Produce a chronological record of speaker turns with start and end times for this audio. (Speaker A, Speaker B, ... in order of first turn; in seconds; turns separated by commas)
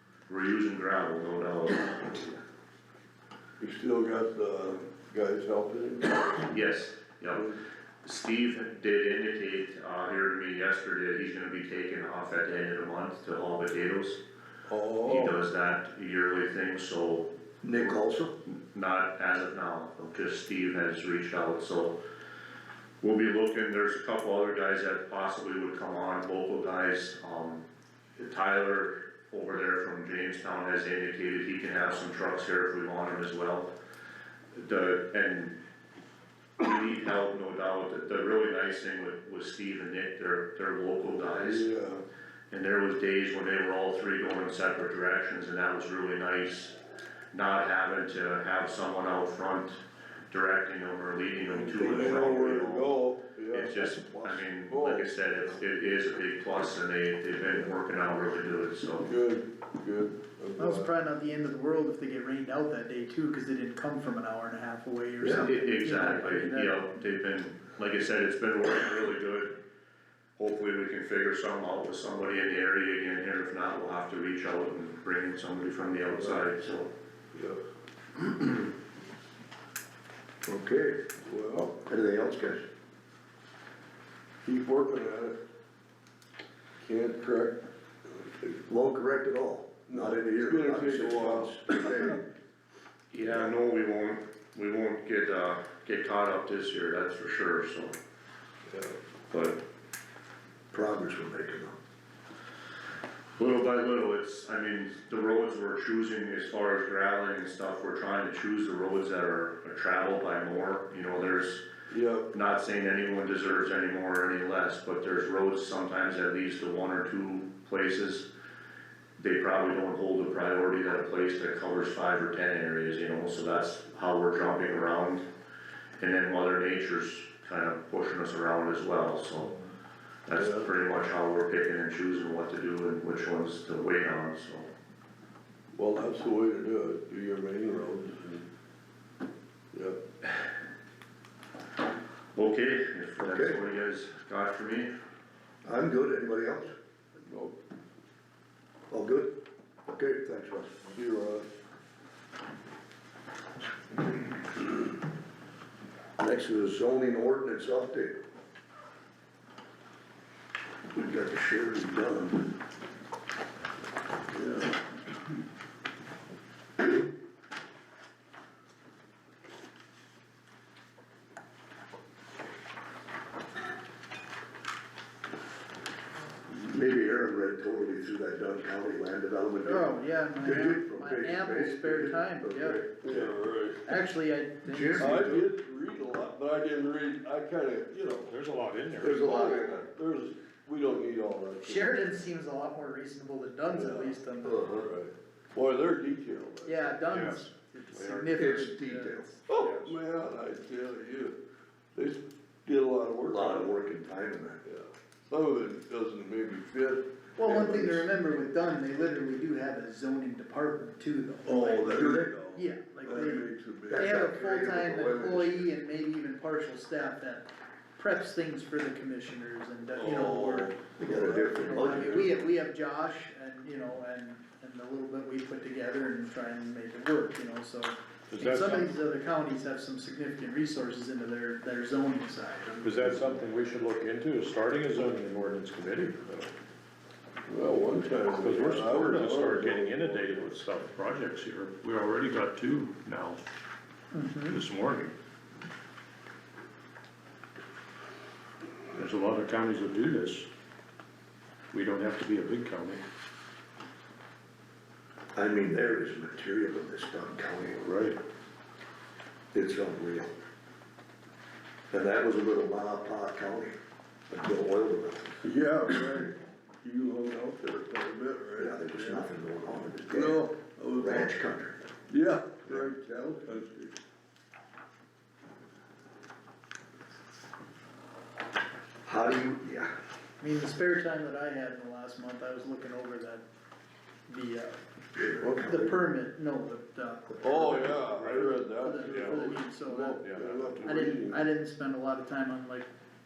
Speaker A: 0.3-2.4, Speaker B: 3.6-6.5, Speaker A: 6.5-7.5, Speaker B: 7.3-7.6, Speaker A: 8.0-14.2, Speaker B: 14.7-15.4, Speaker A: 15.0-17.3, Speaker C: 17.6-18.4, Speaker A: 18.5-22.0, Speaker A: 23.0-27.6, Speaker A: 28.2-33.7, Speaker A: 34.5-35.5, Speaker A: 36.6-41.7, Speaker B: 41.2-42.0, Speaker A: 42.5-46.7, Speaker A: 47.3-49.8, Speaker A: 50.3-53.0, Speaker B: 51.5-54.0, Speaker C: 51.7-52.6, Speaker A: 53.5-59.1, Speaker C: 53.9-54.4, Speaker B: 54.6-55.1, Speaker B: 59.0-60.9, Speaker D: 60.6-66.8, Speaker A: 65.2-69.5, Speaker A: 70.4-76.9, Speaker B: 77.3-77.6, Speaker C: 80.5-81.0, Speaker B: 81.2-81.8, Speaker C: 81.7-82.7, Speaker B: 84.4-85.4, Speaker B: 86.8-88.6, Speaker C: 88.7-92.2, Speaker B: 89.9-92.2, Speaker A: 93.1-97.9, Speaker C: 93.2-93.5, Speaker B: 98.7-99.0, Speaker A: 99.3-99.6, Speaker C: 100.7-101.8, Speaker A: 103.4-111.6, Speaker B: 111.9-112.3, Speaker A: 112.3-118.3, Speaker A: 119.2-125.2, Speaker A: 126.0-129.6, Speaker A: 130.3-134.7, Speaker B: 130.4-130.7, Speaker B: 135.7-138.4, Speaker B: 139.7-140.0, Speaker A: 142.3-144.9, Speaker C: 143.2-143.6, Speaker C: 145.6-146.7, Speaker B: 147.3-147.6, Speaker C: 148.9-149.4, Speaker C: 149.9-150.8, Speaker B: 150.9-151.5, Speaker C: 156.2-158.2, Speaker C: 160.9-162.5, Speaker B: 164.3-164.8, Speaker C: 176.5-183.4, Speaker D: 179.6-182.9, Speaker B: 183.1-183.8, Speaker D: 183.8-185.3, Speaker C: 184.7-185.5, Speaker B: 185.0-188.4, Speaker E: 188.2-189.3, Speaker B: 189.0-192.1, Speaker C: 189.0-189.9, Speaker D: 191.6-194.6, Speaker B: 193.7-194.2, Speaker C: 194.4-194.9, Speaker B: 194.8-197.1, Speaker D: 196.6-199.3, Speaker E: 197.1-198.3, Speaker C: 198.4-199.3, Speaker B: 199.5-201.4, Speaker E: 199.6-199.9, Speaker B: 201.9-203.7, Speaker C: 203.3-204.6, Speaker B: 204.6-208.1, Speaker D: 207.4-220.8, Speaker B: 211.4-214.2, Speaker C: 211.9-212.3, Speaker C: 213.9-215.7, Speaker B: 219.9-222.2, Speaker C: 221.0-222.3, Speaker D: 221.4-232.9, Speaker E: 228.3-228.9, Speaker E: 232.8-236.5, Speaker B: 237.5-240.6, Speaker E: 238.3-243.4, Speaker D: 244.1-244.6, Speaker E: 244.5-245.1, Speaker E: 248.9-250.5, Speaker E: 251.7-253.0, Speaker C: 255.3-257.9, Speaker E: 257.8-258.2, Speaker C: 259.5-260.3, Speaker C: 261.9-263.8, Speaker C: 264.3-265.4, Speaker B: 265.4-269.2, Speaker C: 268.6-270.4, Speaker B: 270.1-271.3, Speaker C: 271.0-271.8, Speaker B: 272.1-274.0, Speaker C: 279.1-279.9, Speaker D: 280.4-283.4, Speaker D: 284.3-284.8, Speaker C: 285.1-285.9, Speaker B: 285.4-286.0, Speaker D: 285.6-290.2, Speaker B: 287.4-291.4, Speaker E: 287.7-288.6, Speaker E: 290.2-290.8, Speaker D: 290.8-292.9